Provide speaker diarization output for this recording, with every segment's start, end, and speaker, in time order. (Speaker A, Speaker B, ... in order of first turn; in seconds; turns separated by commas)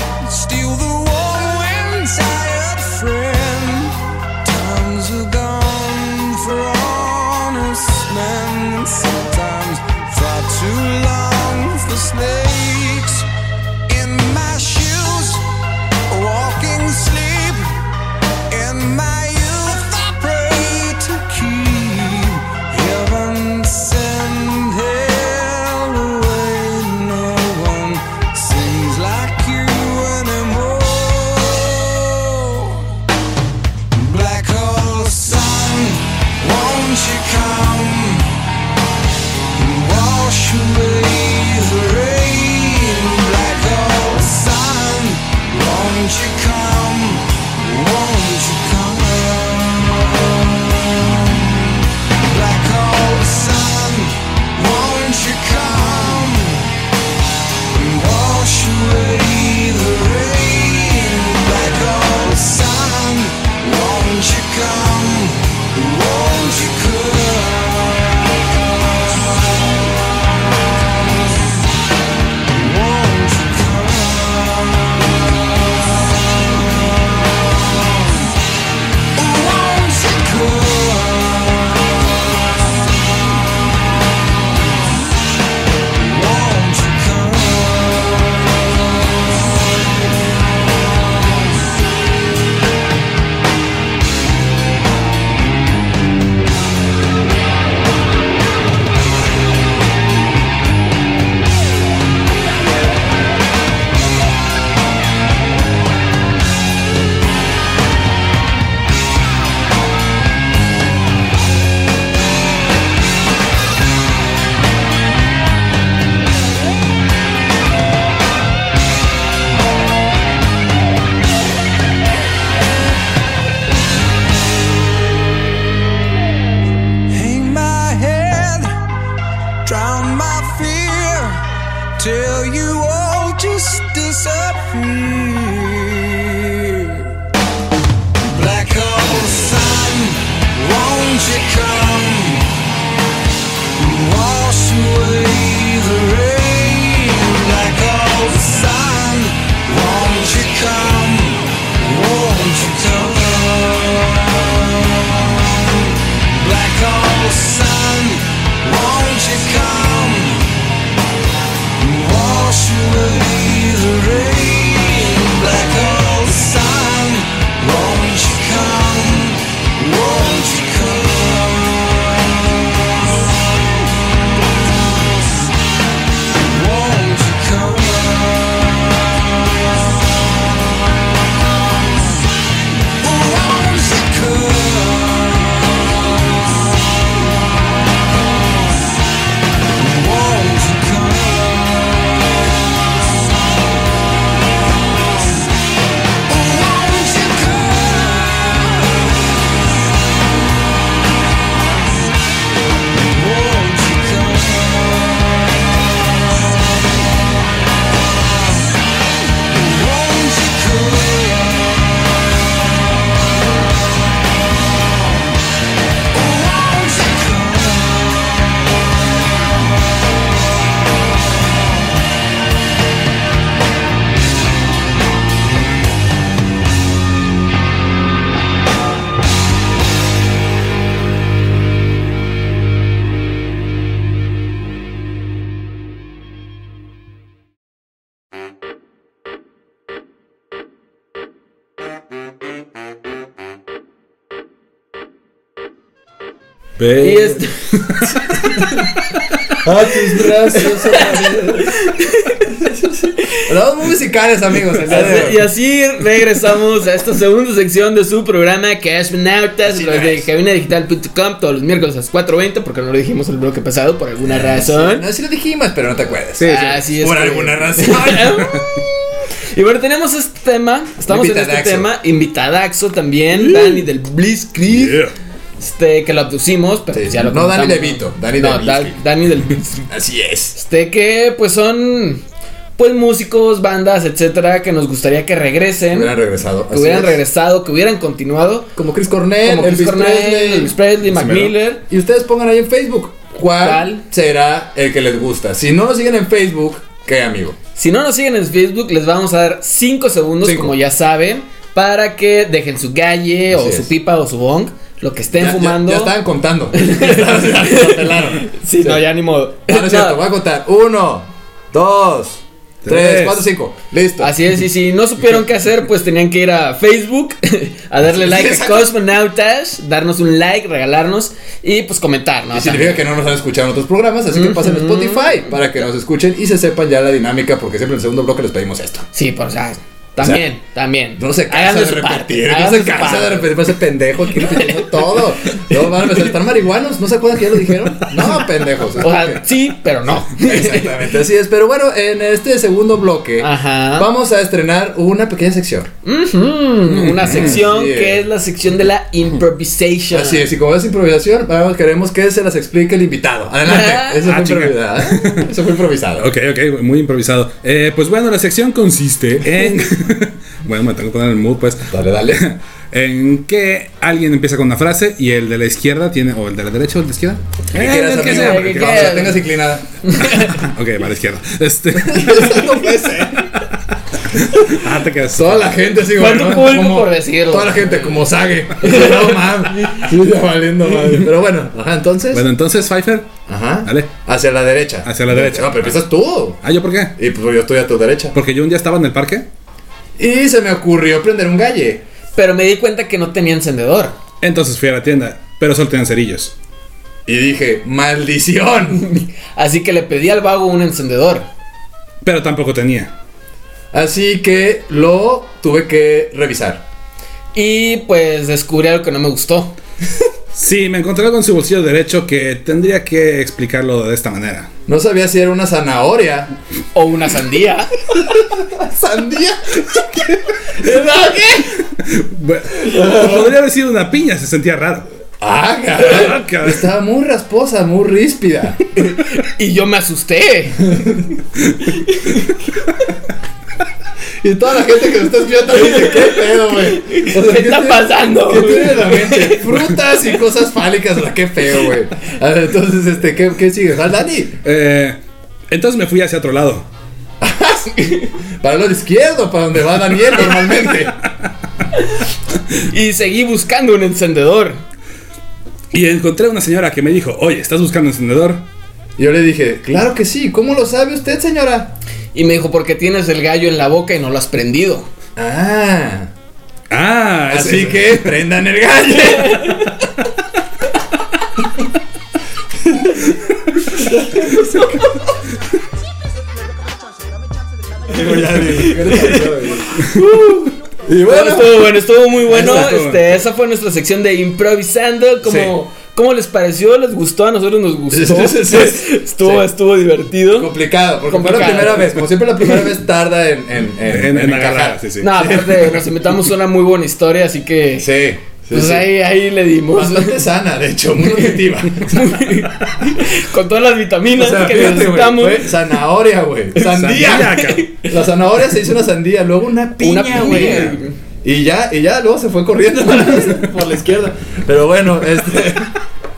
Speaker A: 0.2-13.3, Speaker A: 13.9-15.5, Speaker A: 16.1-17.7, Speaker A: 18.5-33.0, Speaker A: 33.9-38.3, Speaker A: 39.5-56.7, Speaker A: 57.7-68.5, Speaker A: 72.5-75.2, Speaker A: 75.8-78.3, Speaker A: 79.1-82.1, Speaker A: 85.9-88.8, Speaker A: 127.1-128.8, Speaker A: 129.6-131.4, Speaker A: 132.0-137.1, Speaker A: 138.2-142.5, Speaker A: 143.8-160.6, Speaker A: 161.8-172.2, Speaker A: 176.3-178.9, Speaker A: 183.0-186.3, Speaker A: 189.8-192.2, Speaker A: 196.3-199.1, Speaker A: 202.9-205.5, Speaker A: 209.5-211.9, Speaker A: 216.1-218.6, Speaker B: 246.8-248.5, Speaker C: 247.0-248.8, Speaker D: 249.6-251.7, Speaker C: 250.6-253.1, Speaker D: 253.4-255.4, Speaker C: 254.8-265.0, Speaker D: 259.6-260.3, Speaker D: 264.2-268.5, Speaker B: 266.4-266.8, Speaker C: 266.4-268.9, Speaker C: 269.5-275.0, Speaker D: 271.1-271.9, Speaker B: 273.3-273.8, Speaker B: 274.6-275.1, Speaker C: 275.6-279.9, Speaker D: 276.9-279.0, Speaker D: 279.9-280.6, Speaker C: 280.5-282.2, Speaker C: 282.8-286.1, Speaker D: 285.9-287.2, Speaker C: 286.7-288.7, Speaker D: 288.7-290.8, Speaker C: 289.4-291.8, Speaker B: 291.1-291.5, Speaker D: 291.9-297.6, Speaker C: 293.5-294.0, Speaker C: 297.8-306.1, Speaker D: 300.4-300.7, Speaker D: 303.5-303.9, Speaker D: 305.3-309.0, Speaker C: 306.7-310.2, Speaker D: 309.7-314.3, Speaker B: 312.8-313.4, Speaker C: 314.2-323.0, Speaker D: 318.1-318.9, Speaker D: 322.5-329.1, Speaker C: 324.3-325.5, Speaker C: 329.1-333.6, Speaker D: 330.2-330.5, Speaker D: 331.2-339.4, Speaker C: 334.5-334.9, Speaker C: 339.0-341.1, Speaker D: 340.3-345.9, Speaker C: 343.4-344.1, Speaker C: 346.0-350.5, Speaker B: 346.9-347.6, Speaker D: 347.2-348.2, Speaker D: 350.1-356.3, Speaker C: 353.6-354.2, Speaker B: 354.2-355.5, Speaker B: 356.2-369.3, Speaker D: 361.9-362.4, Speaker D: 367.7-369.9, Speaker C: 368.1-369.4, Speaker C: 370.1-370.5, Speaker B: 370.2-372.7, Speaker D: 372.1-373.5, Speaker B: 374.4-375.8, Speaker D: 375.3-382.4, Speaker C: 376.1-378.3, Speaker C: 378.8-380.0, Speaker B: 382.3-384.1, Speaker D: 383.5-386.6, Speaker B: 385.0-386.0, Speaker B: 386.6-387.1, Speaker D: 387.2-388.4, Speaker B: 388.3-389.5, Speaker D: 390.2-392.0, Speaker C: 392.4-394.2, Speaker B: 394.4-396.5, Speaker D: 397.2-399.1, Speaker C: 399.0-401.5, Speaker B: 402.2-403.1, Speaker D: 403.9-406.9, Speaker C: 407.5-409.8, Speaker B: 410.5-414.7, Speaker D: 414.9-416.5, Speaker C: 416.9-417.9, Speaker D: 418.3-421.2, Speaker C: 420.8-421.6, Speaker B: 422.0-425.1, Speaker D: 423.0-423.4, Speaker D: 425.4-428.8, Speaker B: 426.0-426.9, Speaker C: 428.9-431.1, Speaker C: 432.0-432.5, Speaker D: 434.4-444.6, Speaker C: 435.8-439.6, Speaker B: 444.6-445.2, Speaker B: 445.7-446.9, Speaker D: 447.4-451.1, Speaker C: 452.8-454.8, Speaker B: 455.9-458.6, Speaker D: 459.2-461.9, Speaker C: 462.3-465.1, Speaker D: 465.4-466.3, Speaker B: 466.9-468.4, Speaker D: 467.5-469.8, Speaker C: 469.5-469.9, Speaker D: 472.9-473.1, Speaker C: 474.1-474.8, Speaker D: 474.5-474.9, Speaker D: 478.1-479.9, Speaker C: 478.2-490.7, Speaker D: 481.0-481.9, Speaker D: 482.5-482.9, Speaker B: 482.5-483.4, Speaker D: 485.4-485.8, Speaker D: 488.1-489.6, Speaker D: 490.5-495.7, Speaker C: 491.3-492.7, Speaker B: 494.1-495.9, Speaker C: 495.2-498.1, Speaker D: 498.0-499.1, Speaker C: 498.7-500.4, Speaker D: 499.9-502.2, Speaker C: 501.4-505.8, Speaker D: 504.3-515.9, Speaker B: 506.8-507.9, Speaker C: 507.5-508.1, Speaker C: 510.0-511.1, Speaker B: 510.5-510.9